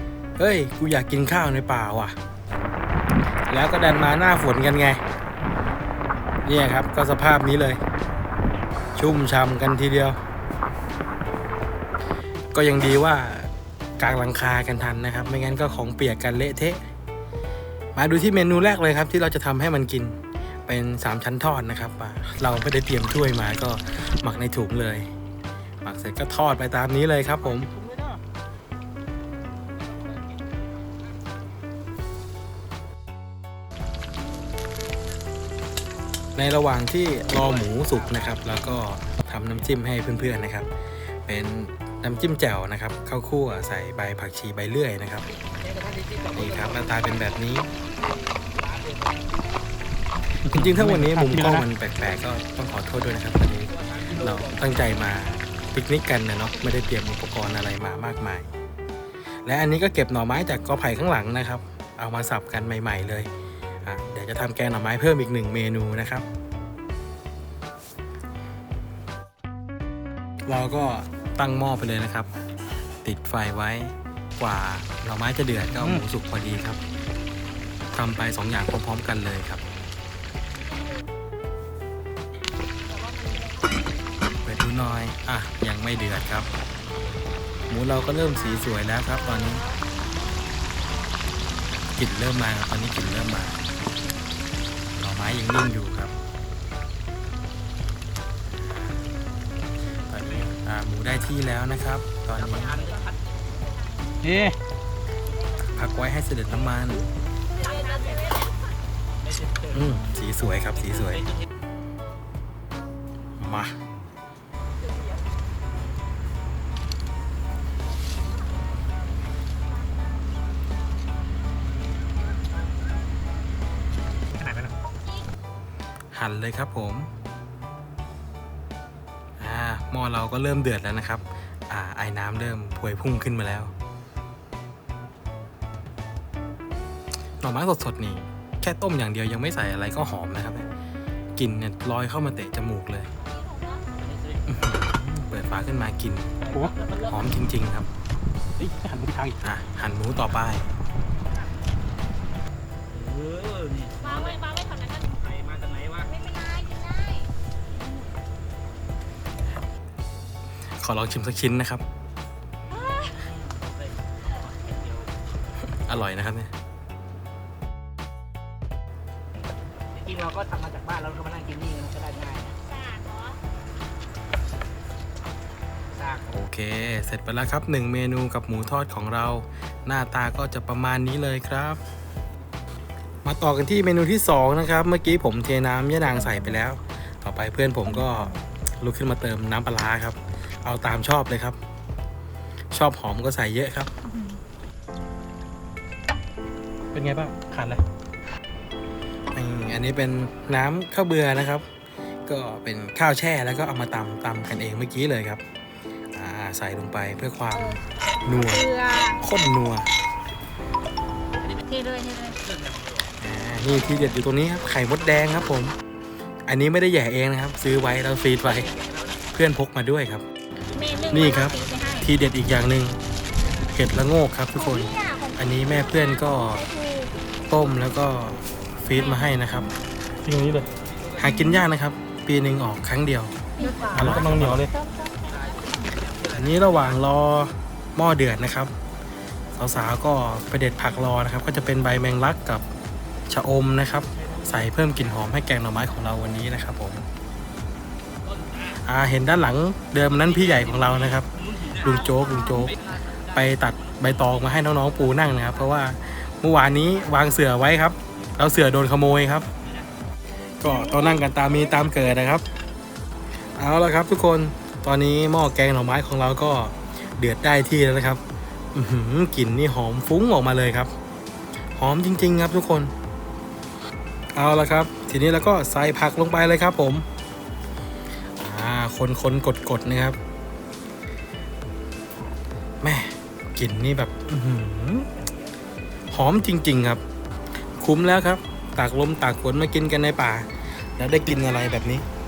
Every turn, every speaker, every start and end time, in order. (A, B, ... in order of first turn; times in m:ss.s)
0:00.4-0:02.1 A
0:03.5-0:05.0 A
0:06.4-0:07.8 A
0:09.0-0:10.2 A
0:12.5-0:16.8 A
0:17.9-0:25.1 A
0:25.8-0:27.7 A
0:36.4-0:40.7 A
0:37.2-0:38.4 B
0:41.2-0:45.3 A
0:45.3-0:47.4 B
0:46.3-0:47.7 A
0:48.5-0:49.3 B
0:50.4-0:58.5 A
0:50.5-0:51.6 C
0:53.7-0:54.8 B
0:59.4-1:03.3 A
1:03.8-1:06.2 A
1:10.4-1:12.3 A
1:13.0-1:16.8 A
1:17.9-1:19.6 A
1:24.4-1:26.5 A
1:27.7-1:29.6 A
1:31.9-1:33.6 A
1:35.0-1:36.1 A
1:40.1-1:42.8 A
1:42.3-1:43.3 B
1:43.6-1:44.2 D
1:44.2-1:44.6 C
1:45.6-1:47.1 A
1:47.6-1:48.5 D
1:47.7-1:48.3 B
1:49.2-1:49.7 B
1:49.7-1:51.3 A
1:53.4-1:53.8 A
2:06.1-2:07.1 A
2:09.4-2:13.7 A
2:17.4-2:20.7 A
2:21.4-2:23.1 A
2:23.4-2:23.8 D
2:24.0-2:24.5 B
2:24.5-2:26.3 A
2:26.4-2:27.1 B
2:26.5-2:26.8 C
2:26.9-2:27.9 A
2:28.6-2:29.4 C
2:29.4-2:30.7 A
2:32.9-2:34.4 B
2:34.0-2:35.2 D
2:35.1-2:36.1 B
2:36.1-2:37.3 D
2:40.8-2:41.8 A
2:42.7-2:45.1 B
2:45.9-2:46.5 A
2:49.9-2:52.6 B
2:52.6-2:53.4 D
2:55.9-2:56.3 B
2:56.3-3:01.8 A
3:03.2-3:11.6 A
3:12.7-3:13.9 A
3:14.1-3:14.3 D
3:16.9-3:17.8 A
3:19.3-3:21.7 A
3:22.2-3:25.4 A
3:26.1-3:29.9 A
3:28.3-3:29.2 D
3:31.6-3:32.4 D
3:32.4-3:33.0 B
3:33.2-3:35.8 A
3:36.5-3:38.7 A
3:38.4-3:39.1 B
3:39.3-3:40.2 A
3:40.7-3:42.1 D
3:41.1-3:43.0 A
3:43.6-3:46.7 A
3:44.6-3:47.2 D
3:47.4-3:49.7 A
3:48.9-3:49.4 D
3:50.2-3:50.5 C
3:50.2-3:50.6 A
3:50.7-3:51.1 B
3:51.2-3:53.3 A
3:53.6-3:55.6 D
3:53.9-3:54.7 C
3:53.9-3:54.7 A
3:55.2-3:57.0 B
3:56.3-3:58.7 A
3:59.5-4:02.6 A
4:03.3-4:07.0 A
4:08.3-4:08.7 B
4:08.8-4:11.3 A
4:10.2-4:15.9 B
4:11.8-4:19.5 A
4:20.6-4:22.4 A
4:20.6-4:21.6 D
4:23.6-4:28.2 A
4:28.7-4:30.9 A
4:31.7-4:32.9 A
4:34.3-4:37.0 A
4:38.4-4:40.2 A
4:42.8-4:45.1 A
4:46.1-4:47.0 A
4:47.7-4:52.0 A